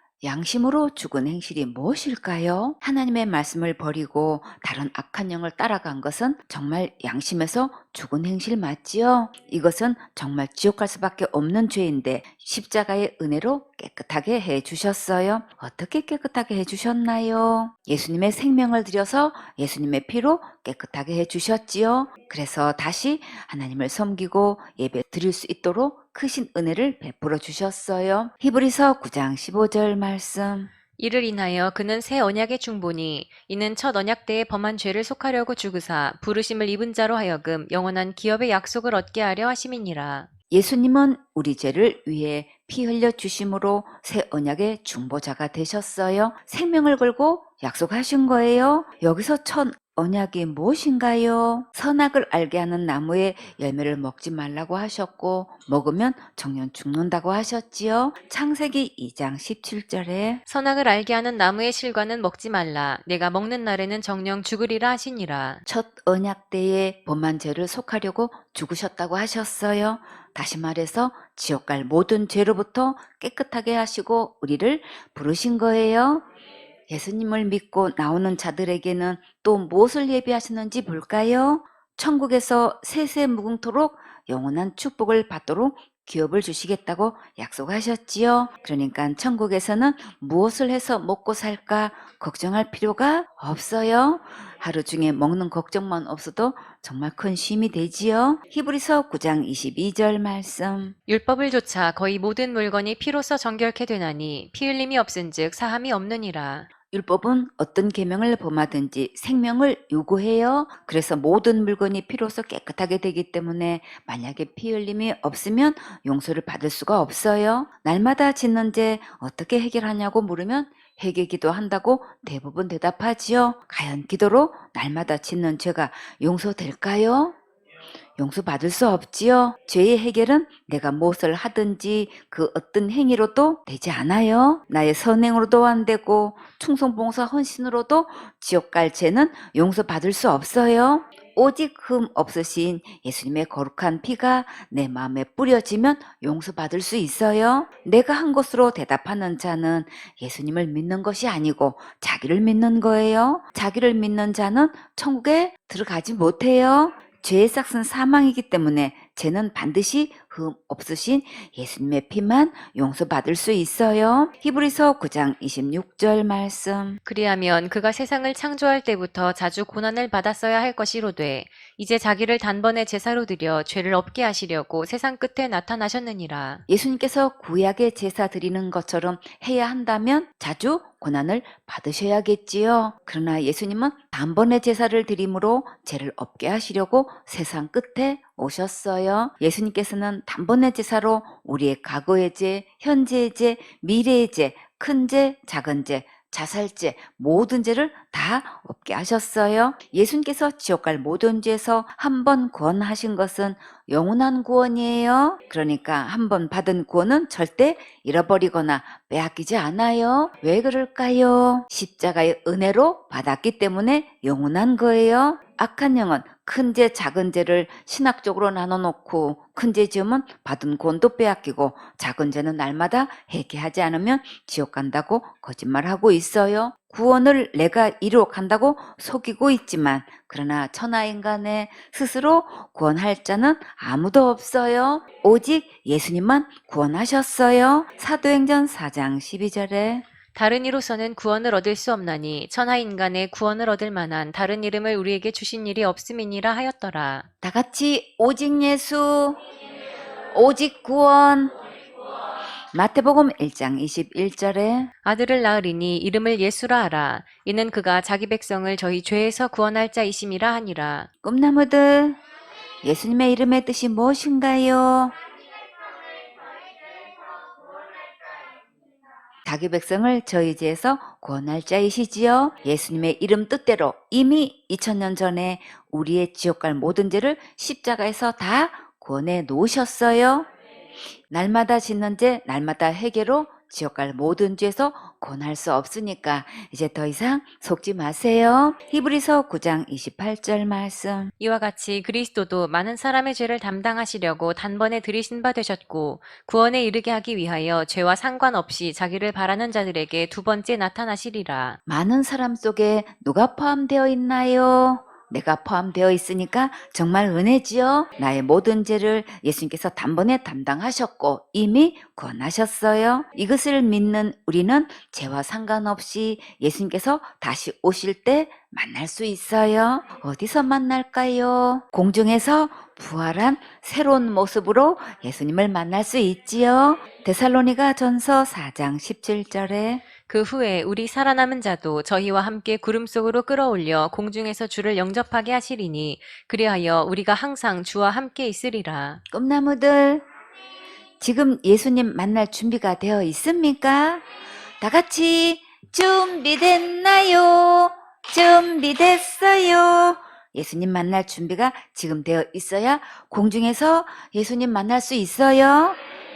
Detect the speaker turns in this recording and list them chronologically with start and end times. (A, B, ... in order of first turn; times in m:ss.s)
0:00.2-0:30.7 A
0:31.0-0:40.3 B
0:40.5-1:00.4 A
1:00.5-1:05.6 B
1:05.7-1:16.2 A
1:16.9-1:41.0 A
1:41.1-1:46.7 B
1:46.9-2:07.4 A
2:08.2-2:47.0 A
2:47.1-2:56.6 B
2:56.7-4:00.0 A
4:00.4-4:07.3 B
4:07.4-4:09.4 A
4:10.3-4:11.6 A
4:12.7-4:14.9 A
4:15.0-4:21.1 B
4:21.2-4:22.2 A
4:22.8-4:25.2 A
4:29.4-4:40.5 A
4:41.3-4:51.3 A
4:51.4-5:01.8 B
5:01.9-5:30.0 A
5:30.3-5:39.2 B
5:39.3-5:40.2 A
5:41.2-5:44.2 A
5:44.8-5:56.0 A